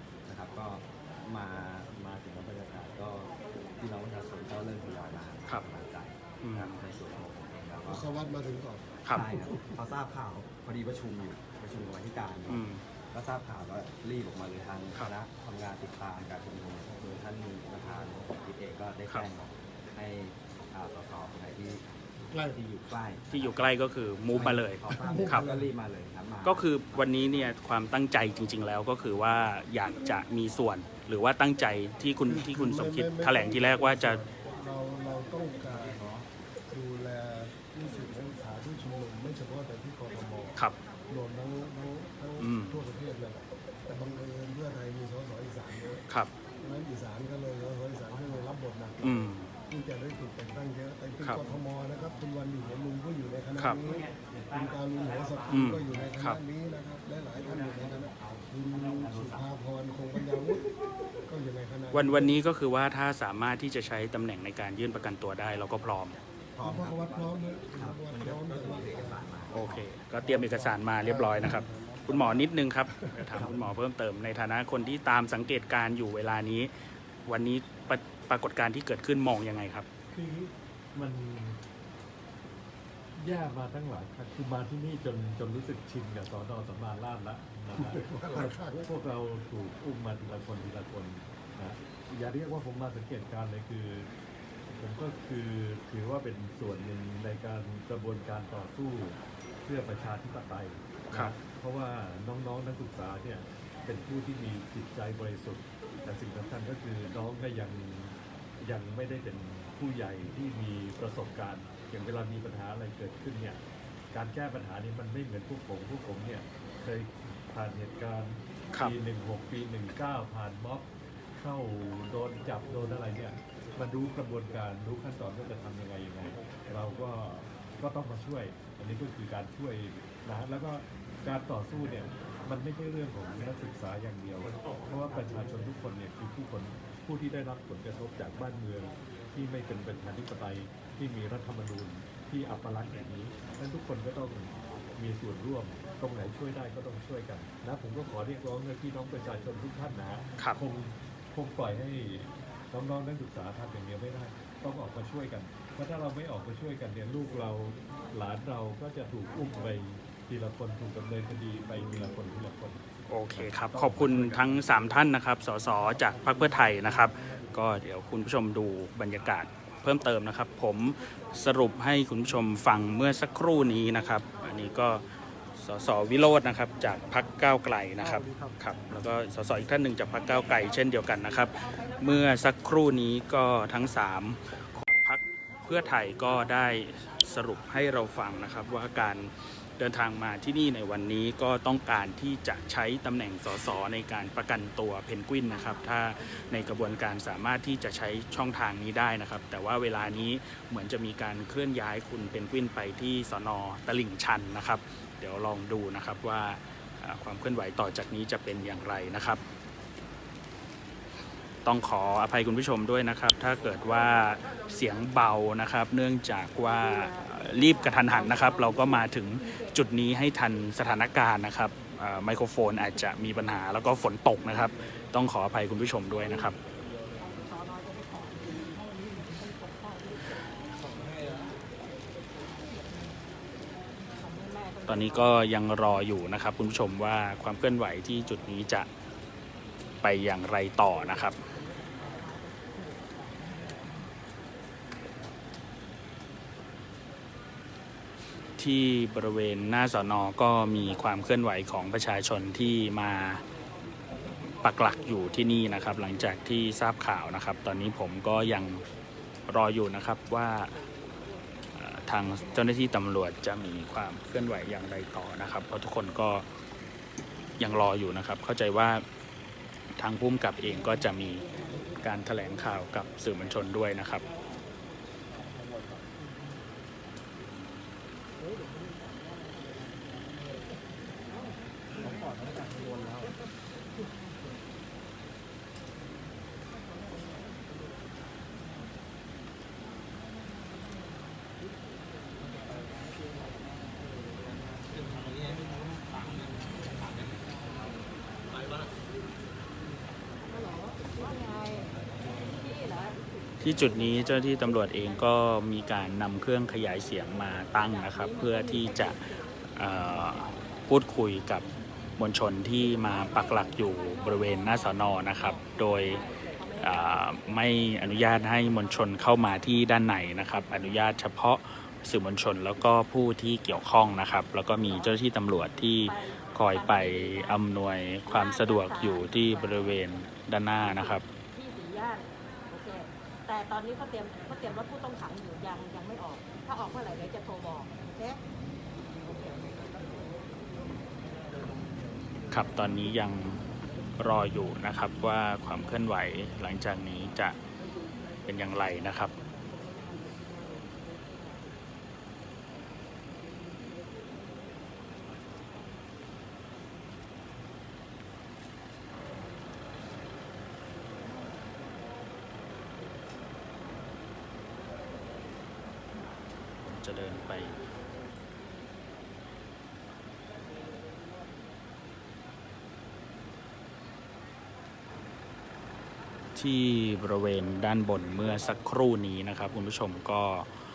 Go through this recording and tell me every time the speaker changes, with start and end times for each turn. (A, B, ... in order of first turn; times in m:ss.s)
0:00.2-0:08.1 A
0:06.4-0:06.8 B
0:07.8-0:09.7 C
0:09.1-0:21.8 A
0:12.5-0:12.8 B
0:22.3-0:22.6 C
0:22.5-0:23.2 A
0:23.3-0:25.5 B
0:24.3-0:27.1 A
0:24.9-0:25.7 C
0:26.4-0:34.2 B
0:32.2-0:36.0 C
0:35.6-0:36.3 A
0:36.7-0:40.6 C
0:41.1-0:46.1 C
0:42.4-0:42.8 B
0:46.6-1:00.7 C
0:49.0-0:49.5 B
0:53.8-0:56.1 A
0:55.5-0:56.4 B
0:57.5-0:59.5 A
1:01.3-1:02.3 C
1:01.9-1:06.2 B
1:06.6-1:09.8 A
1:06.6-1:09.6 C
1:09.5-1:16.7 B
1:10.2-1:13.4 C
1:17.2-1:19.9 B
1:20.1-1:21.6 D
1:23.1-1:34.1 D
1:27.8-1:28.9 C
1:34.8-1:53.6 D
1:54.1-2:44.8 D
2:43.1-2:55.0 B
2:55.6-3:29.4 B
3:15.5-3:16.5 E
3:31.6-3:46.6 B
3:37.1-3:38.9 E
3:39.4-3:39.7 E
3:47.2-3:51.6 E
3:52.5-3:53.2 E
3:54.0-3:55.4 E
3:54.9-3:58.9 B
4:00.0-4:01.4 B
4:01.3-4:04.1 E
4:08.6-4:13.4 B
4:14.6-4:18.8 B
4:19.5-4:20.8 B
4:21.7-4:26.4 B
4:27.6-4:29.0 B
4:30.0-4:31.4 B
4:32.0-4:34.2 B
5:00.4-5:03.2 E
5:03.6-5:11.6 B
5:07.9-5:09.5 E
5:12.2-5:16.2 B
5:13.0-5:17.4 E
5:16.8-5:31.2 B
5:26.0-5:27.6 E
5:28.3-5:30.2 E
5:30.8-5:38.4 E
5:39.2-5:39.8 E
5:42.5-5:43.6 B
5:44.2-5:47.6 B
5:48.4-5:49.3 B
6:06.8-6:07.8 B
6:16.5-6:20.8 B